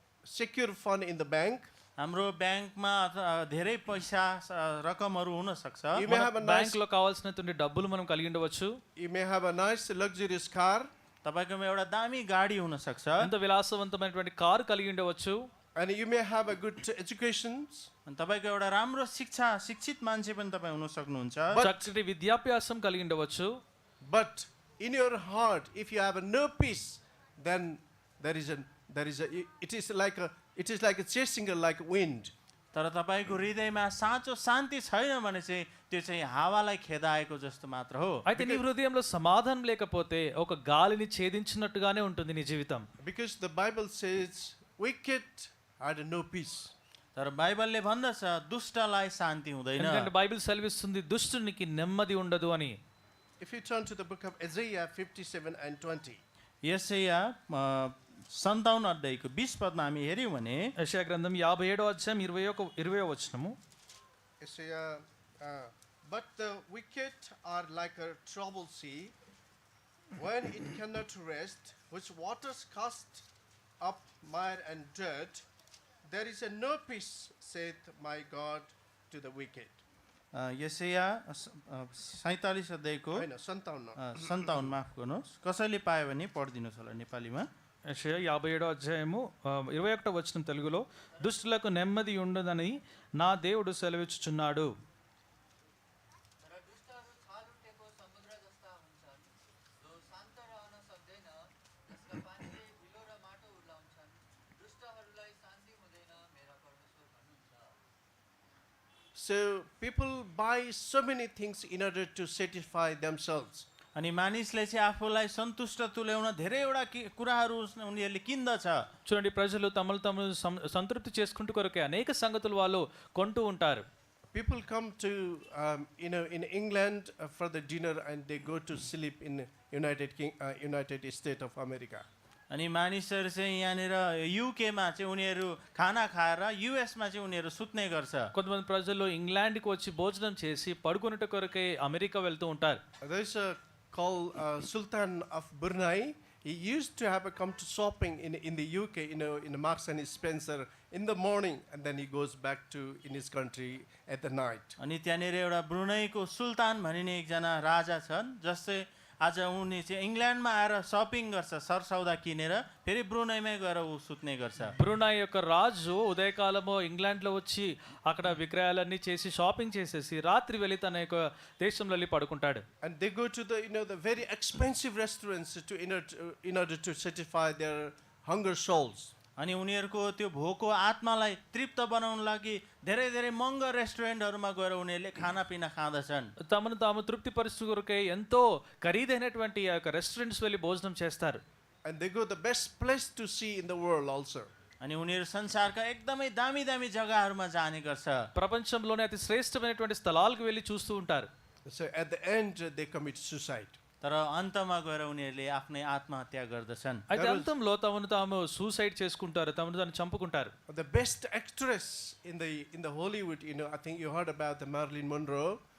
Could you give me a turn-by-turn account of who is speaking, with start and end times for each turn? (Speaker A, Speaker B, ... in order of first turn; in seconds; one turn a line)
Speaker A: 0.3-1.7
Speaker B: 2.0-6.0
Speaker A: 5.9-6.8
Speaker C: 6.1-8.8
Speaker A: 8.9-10.9
Speaker B: 11.2-13.3
Speaker C: 13.2-15.4
Speaker A: 15.7-17.9
Speaker B: 18.1-21.6
Speaker A: 21.5-21.9
Speaker C: 21.6-23.5
Speaker A: 24.0-32.3
Speaker B: 32.7-38.2
Speaker C: 38.3-42.9
Speaker A: 38.4-38.6
Speaker A: 43.0-46.7
Speaker B: 47.1-50.1
Speaker C: 49.8-52.8
Speaker A: 53.4-56.2
Speaker B: 56.6-60.7
Speaker C: 60.8-63.5
Speaker A: 64.4-69.1
Speaker A: 70.2-73.3
Speaker A: 73.8-75.5
Speaker A: 76.1-79.8
Speaker B: 80.3-83.2
Speaker A: 83.1-84.3
Speaker B: 84.0-87.5
Speaker C: 87.9-94.7
Speaker D: 96.4-107.7
Speaker A: 109.1-113.7
Speaker B: 114.0-118.8
Speaker C: 119.0-123.8
Speaker A: 124.3-132.0
Speaker B: 132.5-138.3
Speaker C: 138.3-142.8
Speaker A: 143.0-154.8
Speaker B: 154.8-164.8
Speaker C: 164.7-172.6
Speaker A: 172.8-179.1
Speaker B: 179.4-186.3
Speaker C: 186.4-191.4
Speaker A: 191.8-194.5
Speaker B: 194.8-198.2
Speaker C: 198.3-201.3
Speaker A: 201.7-203.8
Speaker B: 204.0-207.1
Speaker C: 207.1-210.5
Speaker A: 207.1-207.5
Speaker A: 210.7-215.6